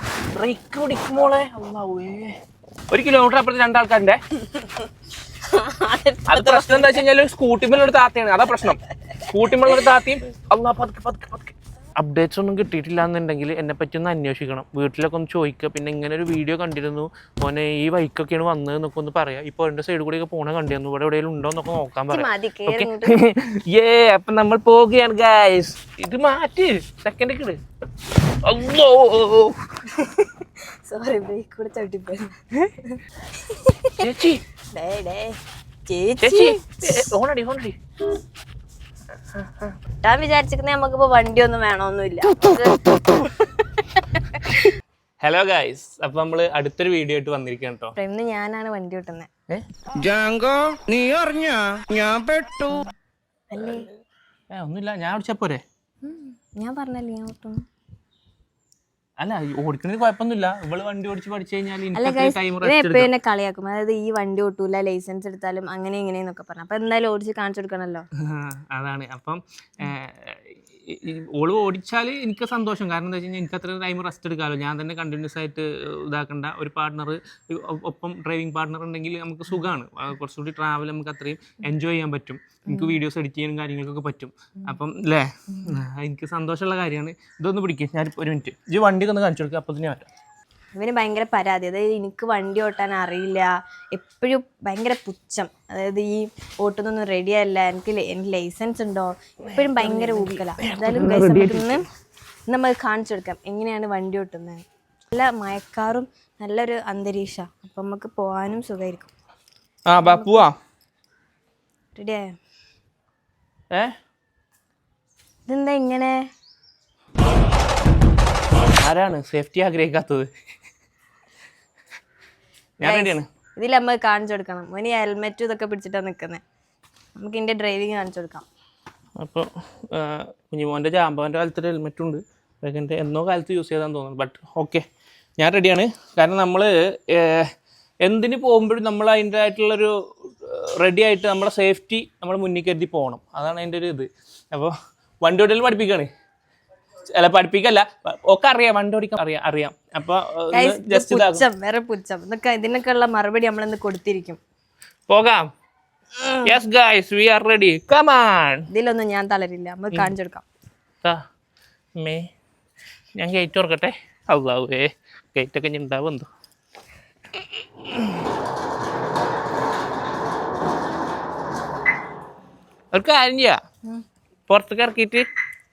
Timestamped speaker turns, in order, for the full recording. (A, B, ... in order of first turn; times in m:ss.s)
0:00.3-0:02.4 A
0:02.9-0:04.2 A
0:04.5-0:04.8 B
0:05.4-0:07.0 B
0:06.3-0:27.6 A
0:22.1-0:23.2 B
0:28.4-0:29.6 A
0:29.9-0:34.0 B
0:34.0-0:34.4 A
0:34.7-0:37.1 B
0:36.2-0:37.8 A
0:39.3-0:39.8 A
0:40.0-0:44.6 B
0:45.2-0:47.9 A
0:48.0-0:49.3 B
0:50.0-0:52.7 C
0:53.5-0:53.9 B
0:54.5-0:55.6 A
0:56.0-0:57.6 B
0:59.2-1:03.1 A
1:01.9-1:08.1 B
1:08.2-1:30.1 A
1:30.8-1:41.8 B
1:39.4-1:41.8 A
1:42.5-1:49.1 B
1:49.9-1:50.6 A
1:50.0-1:50.4 B
1:51.9-1:52.3 B
1:55.5-1:56.3 B
1:58.7-2:00.3 A
2:02.8-2:03.3 A
2:02.8-2:06.4 B
2:07.2-2:08.4 B
2:09.2-2:14.8 A
2:15.4-2:17.5 A
2:18.0-2:26.1 A
2:27.1-2:31.4 A
2:30.5-2:34.4 B
2:35.1-2:35.5 A
2:36.2-2:36.6 B
2:36.4-2:38.6 A
2:38.7-2:40.4 B
2:42.0-2:42.3 A
2:43.2-2:46.3 A
2:47.4-2:48.2 A
2:52.9-2:53.6 A
2:54.5-2:55.3 A